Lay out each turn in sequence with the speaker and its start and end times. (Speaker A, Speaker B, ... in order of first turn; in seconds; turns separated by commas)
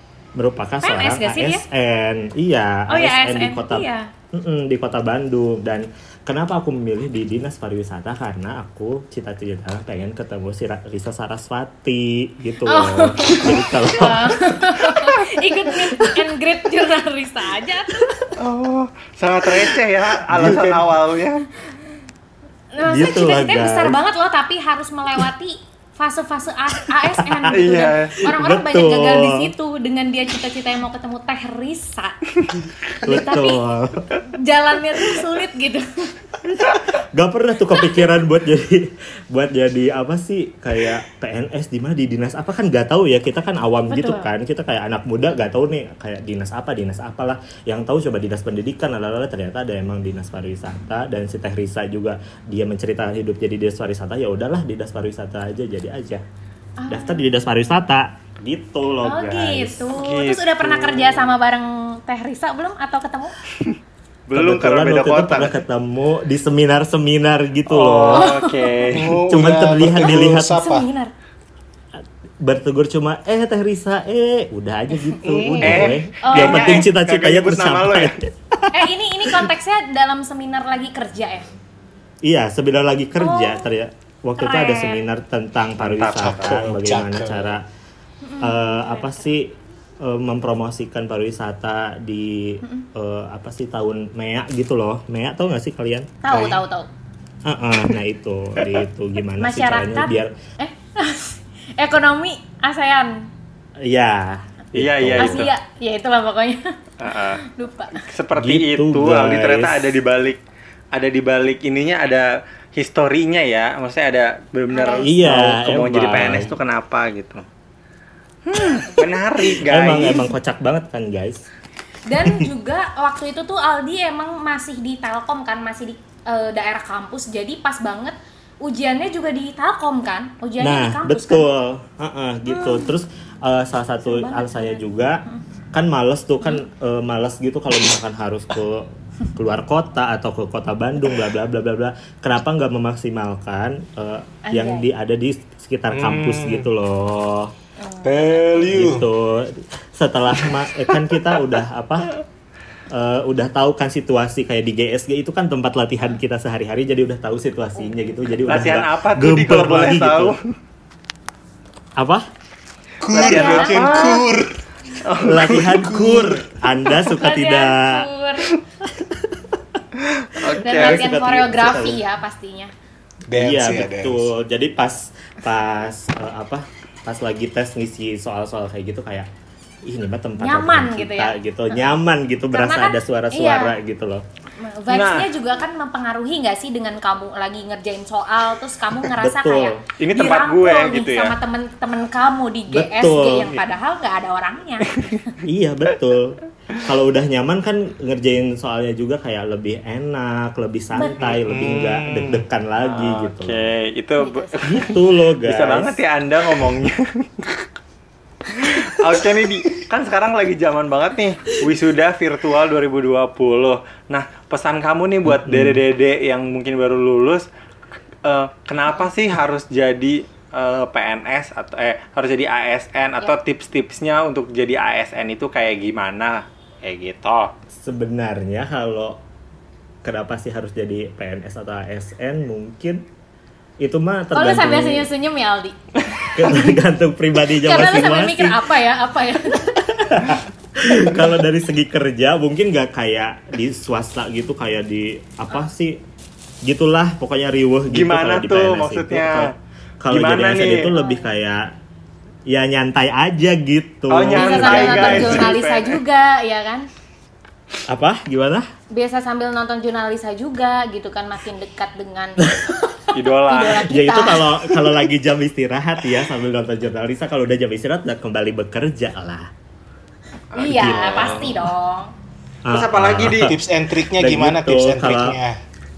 Speaker A: 0.3-14.7, Speaker B: 0.8-1.6, Speaker B: 2.9-4.1, Speaker B: 12.6-18.2, Speaker A: 15.8-16.1, Speaker C: 18.4-21.4, Speaker A: 19.5-20.9, Speaker B: 22.7-32.2, Speaker A: 22.8-23.9, Speaker A: 27.1-29.5, Speaker C: 27.5-28.2, Speaker B: 33.0-33.6, Speaker A: 33.0-34.1, Speaker B: 34.3-36.1, Speaker A: 36.5-56.2, Speaker B: 43.9-44.3, Speaker B: 56.8-57.2, Speaker A: 56.9-59.8, Speaker B: 59.0-63.4, Speaker C: 59.9-61.3, Speaker C: 64.3-65.6, Speaker A: 64.3-68.3, Speaker C: 67.7-69.2, Speaker B: 68.1-68.9, Speaker D: 68.9-70.9, Speaker A: 69.2-70.6, Speaker B: 70.3-71.1, Speaker A: 72.4-79.5, Speaker B: 75.1-75.7, Speaker D: 75.2-76.0, Speaker C: 75.6-78.2, Speaker B: 76.2-76.8, Speaker B: 78.7-81.5, Speaker A: 82.2-87.6, Speaker B: 83.2-83.7, Speaker B: 84.4-85.0, Speaker C: 85.8-86.6, Speaker D: 86.1-87.6, Speaker B: 88.2-89.3, Speaker A: 88.4-96.1, Speaker B: 96.2-96.9, Speaker D: 96.3-96.6, Speaker A: 97.4-100.3, Speaker B: 99.4-103.3, Speaker A: 103.8-105.5, Speaker C: 104.7-105.5, Speaker B: 105.2-108.0, Speaker C: 107.0-107.4, Speaker C: 108.0-110.4, Speaker A: 108.3-109.9, Speaker C: 110.9-117.4, Speaker B: 114.7-115.1, Speaker A: 115.0-116.5, Speaker C: 118.5-120.2, Speaker A: 119.6-121.5, Speaker B: 122.0-131.4, Speaker A: 130.6-135.2, Speaker B: 132.5-132.9, Speaker B: 134.0-135.4, Speaker A: 135.7-147.5, Speaker B: 144.4-144.9, Speaker D: 145.9-146.7, Speaker B: 147.8-148.4, Speaker D: 148.0-149.0, Speaker A: 148.7-152.1, Speaker A: 152.9-160.3, Speaker C: 158.4-160.4, Speaker A: 162.0-162.2, Speaker D: 163.0-164.6, Speaker C: 163.1-164.3, Speaker B: 163.1-163.8, Speaker C: 165.0-165.8, Speaker A: 165.2-168.1, Speaker D: 165.6-166.4, Speaker B: 167.1-168.5, Speaker A: 168.9-169.6, Speaker C: 170.1-171.0, Speaker A: 170.6-172.0, Speaker B: 170.6-172.7, Speaker D: 173.3-174.3, Speaker A: 173.3-179.3, Speaker A: 179.8-184.2, Speaker B: 180.4-181.9, Speaker B: 182.5-183.7, Speaker B: 184.6-195.3, Speaker C: 184.9-185.3, Speaker A: 189.1-189.8, Speaker C: 190.0-191.3, Speaker A: 192.7-193.7, Speaker A: 195.4-203.6, Speaker B: 200.9-201.2, Speaker D: 201.2-202.4, Speaker C: 202.8-207.7, Speaker B: 204.2-204.9, Speaker A: 204.7-206.0, Speaker C: 208.6-217.4, Speaker A: 215.2-215.8, Speaker C: 218.2-227.5, Speaker A: 227.7-229.2, Speaker A: 230.0-233.1, Speaker A: 233.8-235.1, Speaker B: 234.3-235.7, Speaker A: 236.3-238.7, Speaker B: 237.5-239.8, Speaker A: 239.5-246.0, Speaker A: 246.6-251.7, Speaker C: 247.9-249.5, Speaker C: 250.1-250.9, Speaker B: 250.9-251.3, Speaker A: 252.5-255.6, Speaker C: 254.1-256.0, Speaker B: 254.3-256.9, Speaker D: 255.1-255.3, Speaker A: 257.9-258.6, Speaker B: 258.9-262.5, Speaker A: 262.4-262.7, Speaker C: 263.1-263.9, Speaker B: 263.1-264.8, Speaker A: 263.9-269.5, Speaker B: 270.5-272.1, Speaker C: 270.6-271.5, Speaker A: 270.6-271.7, Speaker A: 272.6-275.4, Speaker C: 272.7-273.5, Speaker D: 273.0-275.6